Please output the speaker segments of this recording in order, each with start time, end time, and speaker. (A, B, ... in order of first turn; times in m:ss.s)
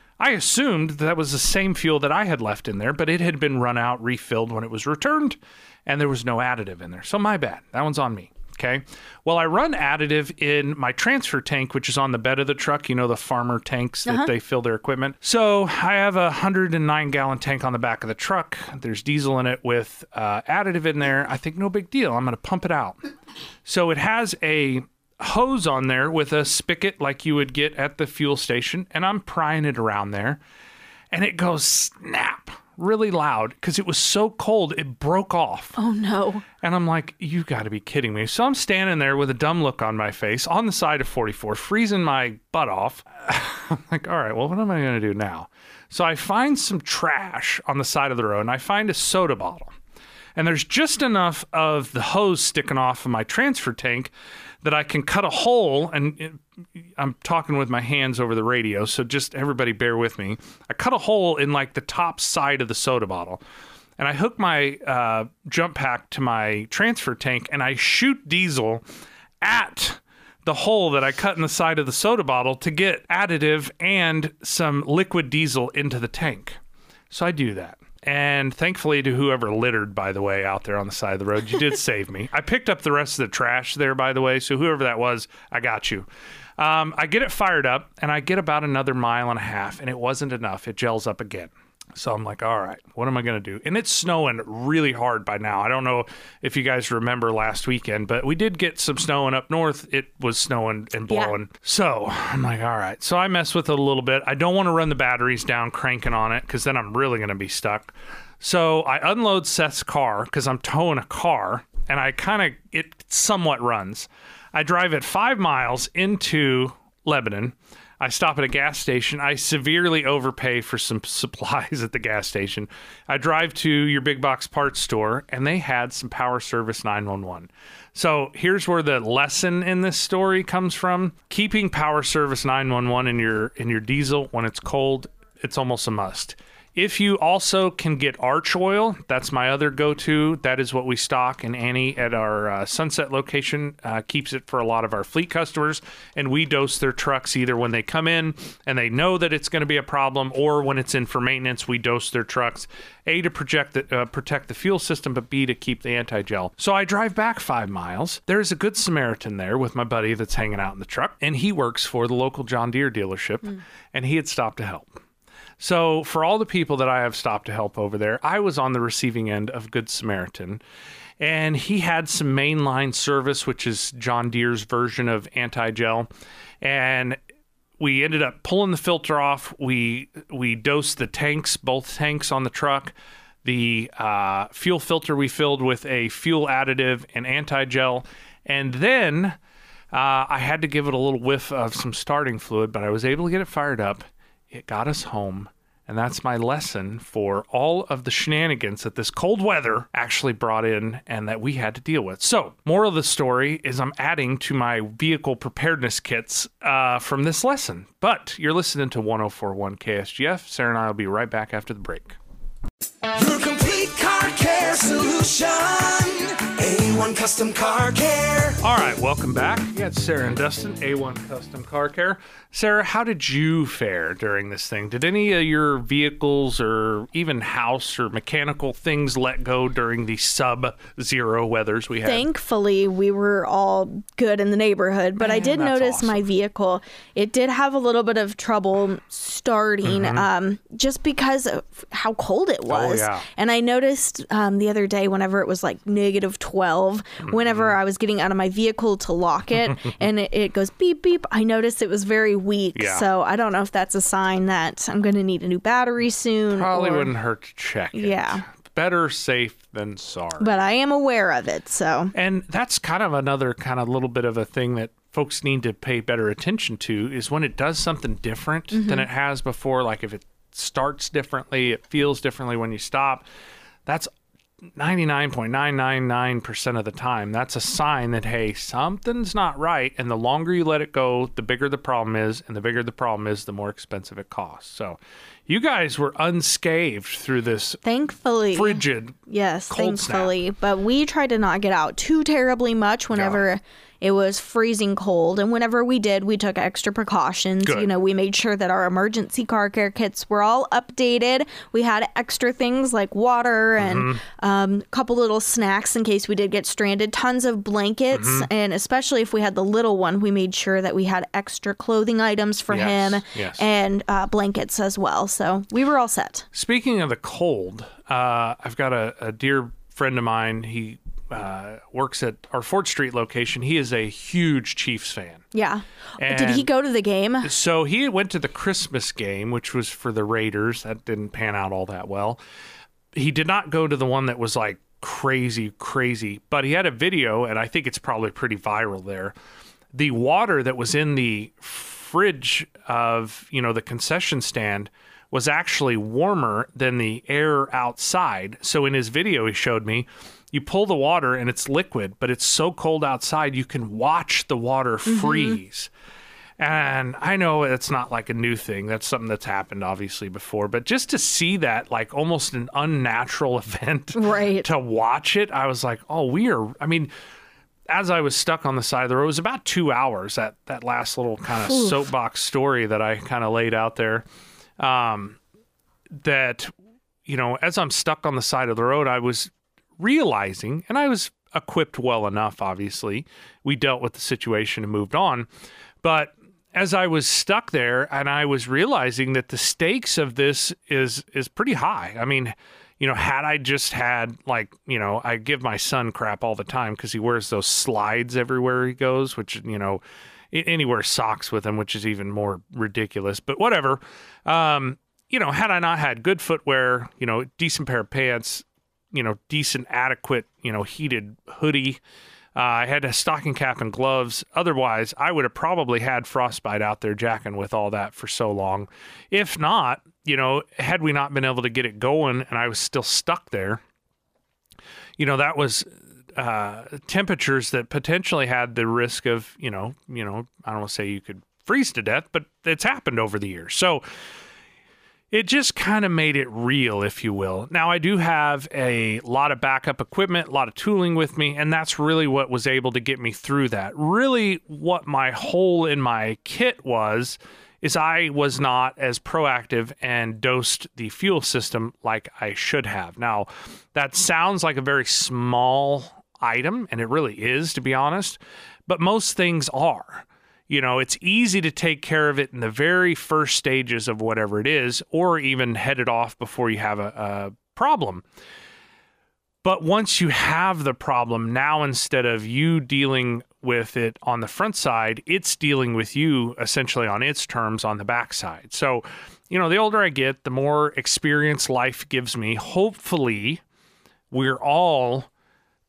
0:00.2-0:23.0 A
0:23.6-0:30.4 A
0:31.1-0:35.8 A
0:35.8-0:36.4 B
0:36.6-0:49.7 A
0:50.4-0:54.1 A
0:54.6-1:03.4 A
1:04.0-1:08.8 A
1:09.4-1:16.6 A
1:17.1-1:26.1 A
1:26.6-2:45.0 A
2:45.6-2:50.6 A
2:51.2-2:56.1 A
2:56.6-2:57.2 A
2:57.8-3:09.4 A
3:09.9-3:32.2 A
3:33.0-3:38.6 C
3:38.6-3:52.3 A
3:52.0-4:17.1 B
3:55.2-3:56.2 A
3:59.8-4:00.2 A
4:02.7-4:03.2 A
4:07.2-4:07.7 A
4:12.7-4:13.0 A
4:16.5-4:20.6 A
4:17.9-4:18.4 B
4:20.4-4:22.1 B
4:22.1-4:33.2 A
4:28.7-4:29.0 B
4:34.8-4:47.8 A
4:47.8-5:16.4 B
4:48.5-4:49.2 A
4:49.7-4:50.3 A
4:53.1-4:53.4 A
4:57.6-4:57.9 A
5:03.8-5:04.2 A
5:08.1-5:08.5 A
5:12.7-5:13.6 A
5:16.5-5:25.4 A
5:25.5-5:27.5 B
5:26.2-5:26.7 A
5:27.4-5:32.4 A
5:33.1-5:39.3 A
5:39.9-5:55.9 A
5:55.0-5:55.6 B
5:56.6-6:07.1 A
6:04.1-6:04.7 B
6:07.9-6:14.2 A
6:11.6-6:12.0 B
6:14.8-6:15.4 A
6:16.1-6:16.7 A
6:17.2-6:25.5 A
6:26.0-6:52.0 A
6:52.5-7:03.8 A
7:05.2-7:14.0 A
7:15.3-7:48.2 A
7:49.6-8:03.6 A
8:04.3-8:05.3 A